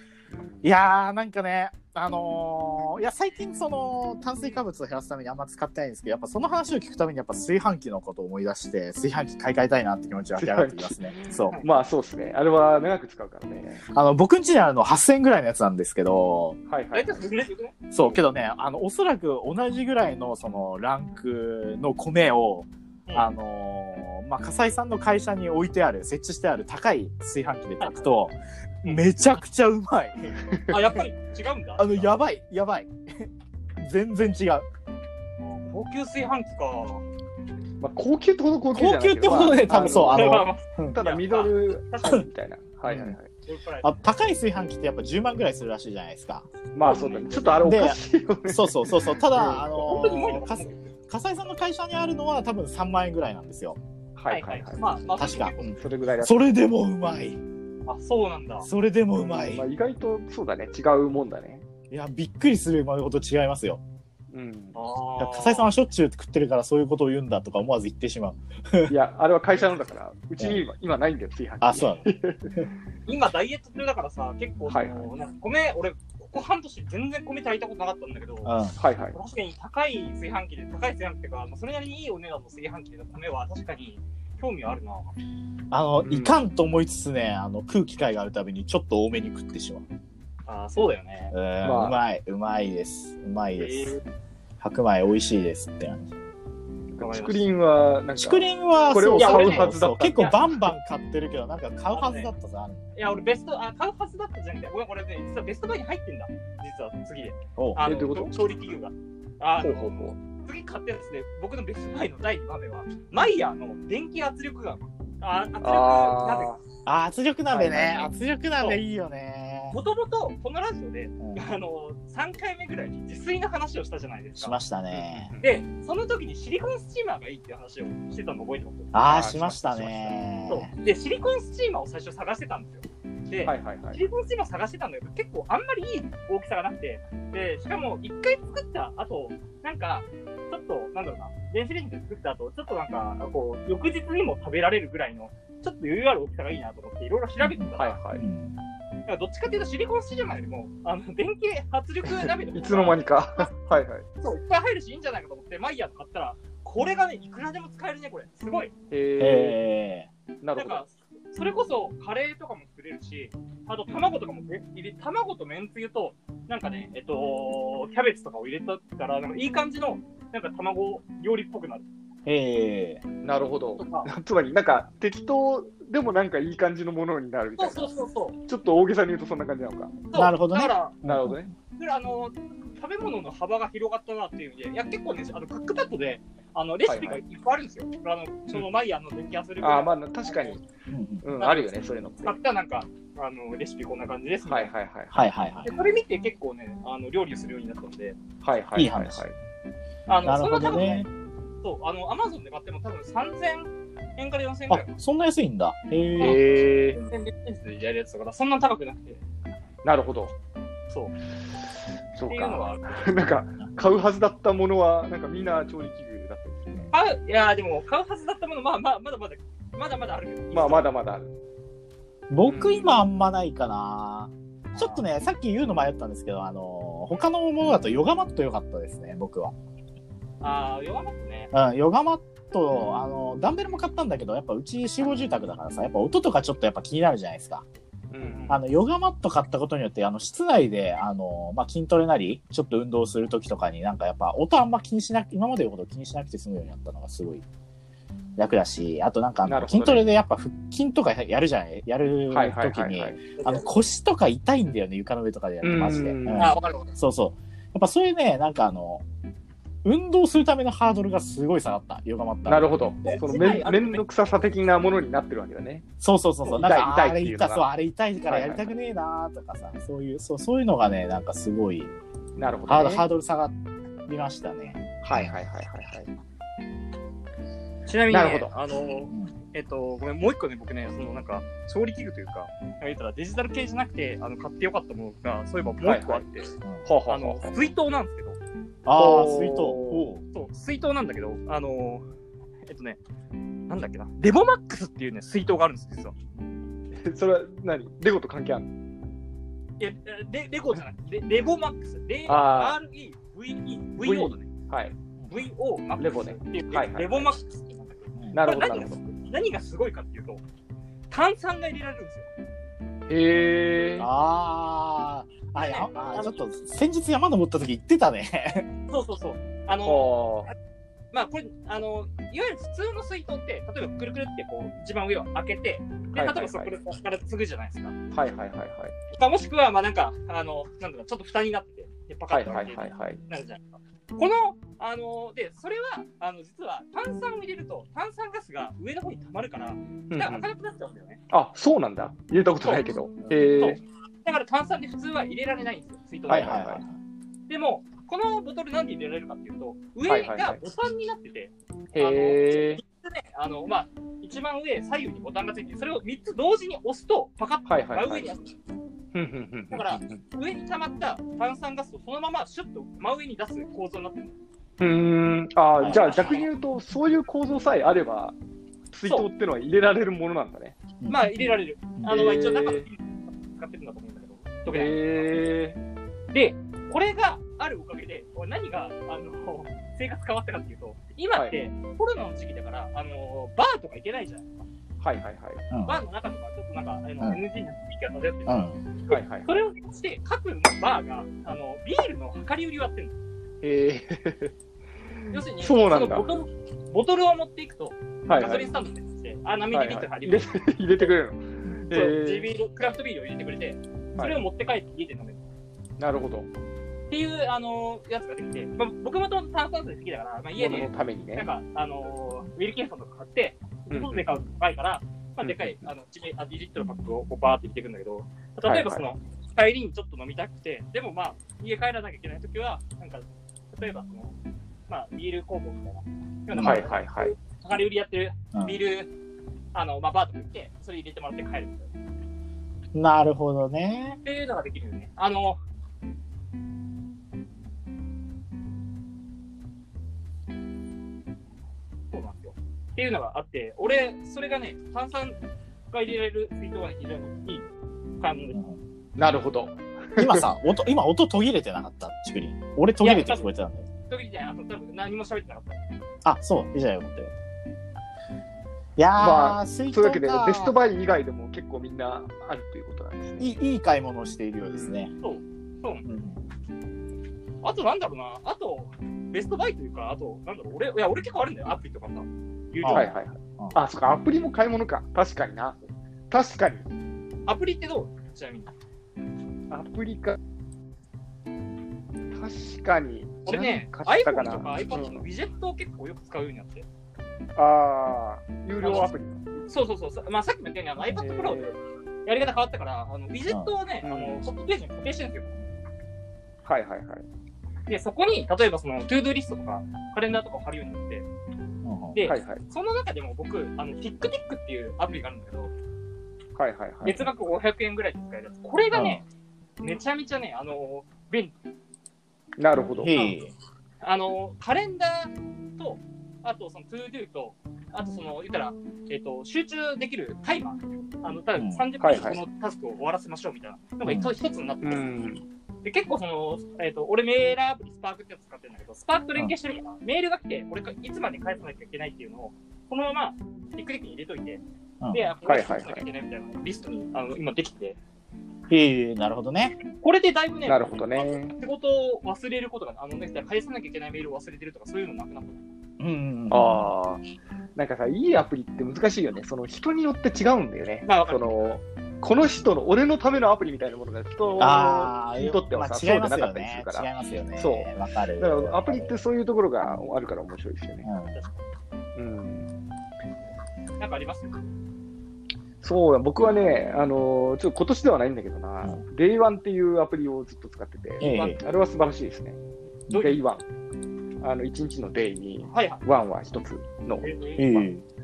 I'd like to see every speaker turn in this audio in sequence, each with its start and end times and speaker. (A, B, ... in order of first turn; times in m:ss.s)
0:00.3-0:00.7 A
0:00.6-0:11.6 B
0:10.4-0:13.8 A
0:13.9-0:16.6 B
0:16.7-0:17.3 A
0:16.9-0:17.7 C
0:17.9-0:30.5 B
0:30.5-0:30.7 A
0:30.7-0:32.1 C
0:31.8-0:33.3 B
0:33.8-0:34.6 B
0:35.4-0:37.0 C
0:37.8-0:43.3 A
0:38.7-0:41.0 B
0:40.1-0:42.2 C
0:42.8-0:43.2 B
0:43.4-0:44.0 C
0:43.8-0:46.5 B
0:46.7-0:49.8 A
0:46.8-0:47.6 C
0:47.6-0:53.8 B
0:49.8-0:50.9 C
0:54.2-0:54.8 A
0:54.3-0:55.7 C
0:55.1-0:57.4 B
0:55.8-0:56.5 A
0:57.9-0:58.7 C
0:58.6-0:59.6 B
0:59.1-1:01.6 A
1:01.9-1:03.8 B
1:04.3-1:04.8 A
1:04.7-1:05.7 C
1:05.2-1:08.9 B
1:08.9-1:12.6 A
1:11.6-1:12.1 B
1:13.1-1:18.5 C
1:14.7-1:15.1 A
1:18.4-1:18.8 B
1:18.8-1:19.2 A
1:19.1-1:25.1 C
1:25.7-1:29.8 B
1:26.0-1:26.4 A
1:30.5-1:31.3 C
1:31.3-1:33.9 B
1:31.6-1:32.0 A
1:33.6-1:34.0 C
1:34.6-1:36.2 B
1:36.9-1:40.4 A
1:37.0-1:37.5 C
1:38.2-1:42.8 B
1:39.2-1:40.4 C
1:41.9-1:42.3 C
1:43.0-1:56.6 C
1:47.6-1:47.9 B
1:47.8-1:48.3 A
1:49.6-1:50.2 A
1:55.6-1:56.6 A
1:56.8-1:59.8 B
1:57.5-1:58.0 A
1:59.7-2:04.5 C
2:04.4-2:05.3 B
2:04.9-2:05.6 A
2:05.4-2:09.0 C
2:08.9-2:10.7 B
2:09.0-2:10.2 A
2:10.5-2:28.0 C
2:13.4-2:14.0 A
2:27.4-2:28.5 B
2:27.8-2:28.2 A
2:29.1-2:33.5 C
2:32.5-2:34.0 A
2:34.2-2:38.7 C
2:38.9-2:39.6 A
2:39.2-2:40.1 B
2:40.4-2:40.8 A
2:40.6-2:51.8 C
2:52.2-2:53.0 B
2:53.2-2:57.9 A
2:53.8-2:54.1 C
2:57.6-2:58.4 C
2:58.5-3:00.0 A
3:00.1-3:00.9 C
3:00.1-3:01.4 B
3:01.0-3:01.5 A
3:01.8-3:10.6 C
3:06.8-3:07.2 A
3:09.6-3:10.6 A
3:10.9-3:11.2 B
3:11.2-3:12.4 A
3:11.4-3:14.7 C
3:14.4-3:15.3 A
3:15.1-3:15.8 B
3:15.6-3:18.2 C
3:18.4-3:19.3 A
3:18.8-3:19.2 B
3:20.1-3:21.0 C
3:20.2-3:21.1 B
3:21.6-3:24.9 C
3:24.7-3:26.4 B
3:26.2-3:27.0 A
3:26.9-3:29.2 C
3:29.8-3:30.3 A
3:32.1-3:36.9 A
3:32.3-3:33.0 C
3:36.9-3:40.9 C
3:40.5-3:41.3 A
3:42.3-3:49.5 B
3:42.4-3:43.0 A
3:44.7-3:45.0 C
3:50.4-3:51.5 C
3:51.5-3:57.6 B
3:58.1-3:58.5 A
3:58.2-3:58.6 C
3:58.5-4:07.4 B
4:08.4-4:19.0 B
4:09.4-4:10.1 A
4:12.3-4:13.2 A
4:13.4-4:13.7 C
4:15.6-4:16.6 A
4:16.4-4:16.9 C
4:19.8-4:23.6 B
4:22.4-4:25.8 A
4:23.1-4:24.0 C
4:26.0-4:31.9 B
4:26.4-4:27.6 A
4:28.3-4:28.7 A
4:32.4-4:33.0 A
4:32.7-4:35.4 B
4:35.0-4:36.1 A
4:37.9-4:46.5 C
4:38.1-4:38.5 A
4:45.8-4:46.3 A
4:46.8-4:47.7 A
4:47.1-4:48.4 C
4:48.8-4:50.2 B
4:49.0-4:50.0 A
4:50.3-4:52.1 C
4:52.7-4:53.0 C
4:53.7-4:56.1 C
4:56.9-4:58.7 A
4:59.8-5:04.5 C
5:02.3-5:02.8 A
5:04.0-5:04.9 A
5:05.3-5:10.4 C
5:06.0-5:07.3 A
5:08.3-5:09.0 A
5:11.1-5:12.3 C
5:13.1-5:14.1 A
5:14.0-5:18.7 B
5:15.6-5:16.4 C
5:18.9-5:20.1 C
5:19.8-5:20.5 A
5:21.1-5:28.0 C
5:26.1-5:26.7 A
5:28.1-5:28.9 A
5:29.1-5:41.2 C
5:32.3-5:33.2 A
5:40.1-5:40.5 A
5:41.3-5:43.8 A
5:42.6-5:42.9 C
5:43.2-5:43.6 B
5:43.6-5:46.8 C
5:46.3-5:46.9 B
5:46.3-5:46.8 A
5:47.5-5:58.5 C
5:50.1-5:50.6 A
5:51.9-5:52.8 A
5:57.6-5:58.3 A
5:59.1-6:00.2 A
5:59.7-6:04.3 C
6:04.8-6:08.4 A
6:05.8-6:06.4 B
6:05.8-6:06.5 C
6:08.9-6:10.8 A
6:11.0-6:12.2 B
6:11.1-6:15.4 C
6:12.0-6:12.9 A
6:14.7-6:15.8 A
6:16.3-6:24.5 C
6:25.0-6:25.6 A
6:25.7-6:26.0 B
6:25.8-6:33.1 C
6:28.5-6:28.8 B
6:29.1-6:29.5 A
6:33.6-6:34.5 A
6:35.2-6:36.3 A
6:35.3-6:41.1 C
6:38.3-6:38.7 A
6:39.7-6:42.5 A
6:41.9-6:45.4 C
6:44.2-6:44.4 A
6:46.0-6:46.5 A
6:47.1-7:04.4 C
6:50.6-6:51.5 A
6:53.9-6:54.3 A
6:55.4-6:55.8 A
6:58.6-6:59.0 A
7:04.9-7:09.1 C
7:06.5-7:06.8 B
7:06.6-7:07.3 A
7:08.5-7:08.8 B
7:09.7-7:11.9 C
7:12.9-7:14.2 B
7:14.2-7:15.6 C
7:22.1-7:25.4 C
7:25.9-7:27.6 C
7:28.2-7:28.6 C
7:29.2-7:30.5 A
7:30.2-7:33.9 B
7:33.0-7:33.5 C
7:34.1-7:35.8 C
7:36.2-7:37.3 B
7:39.0-7:40.8 B
7:39.2-7:43.6 A
7:43.4-7:45.1 B
7:44.6-7:45.0 A
7:45.2-7:46.1 C
7:46.0-7:46.4 B
7:47.6-7:53.1 C
7:52.8-7:53.8 B
7:52.9-7:55.8 A
7:56.3-7:56.9 A
7:57.5-7:58.7 C
7:59.7-8:00.4 A
8:02.3-8:05.2 A
8:03.4-8:06.8 C
8:07.6-8:09.4 A
8:08.8-8:15.7 C
8:11.2-8:11.7 A
8:14.0-8:14.4 A
8:16.6-8:17.2 A
8:17.9-8:21.3 C
8:21.8-8:22.2 B
8:22.1-8:25.7 C
8:22.2-8:22.6 A
8:26.6-8:27.3 A
8:27.0-8:29.2 C
8:28.9-8:29.2 B
8:29.8-8:31.5 C
8:32.6-8:33.2 A
8:33.0-8:33.5 B
8:34.0-8:45.1 C
8:41.6-8:41.8 B
8:42.0-8:42.4 A
8:44.0-8:44.3 B
8:44.8-8:45.4 A
8:45.8-8:58.0 C
8:55.0-8:55.3 B
8:55.4-8:56.0 A
8:58.7-8:59.8 B
9:00.0-9:05.6 C
9:00.7-9:01.5 A
9:06.0-9:06.9 B
9:06.5-9:07.2 A
9:07.8-9:21.1 A
9:11.0-9:11.5 C
9:14.6-9:19.2 B
9:21.0-9:21.4 B
9:22.2-9:22.7 A
9:24.0-9:24.6 C
9:25.8-9:32.6 A
9:31.2-9:31.6 B
9:31.2-9:31.6 C
9:33.1-9:33.6 A
9:34.4-9:37.9 A
9:35.7-9:36.0 C
9:37.2-9:37.6 C
9:37.6-9:38.0 B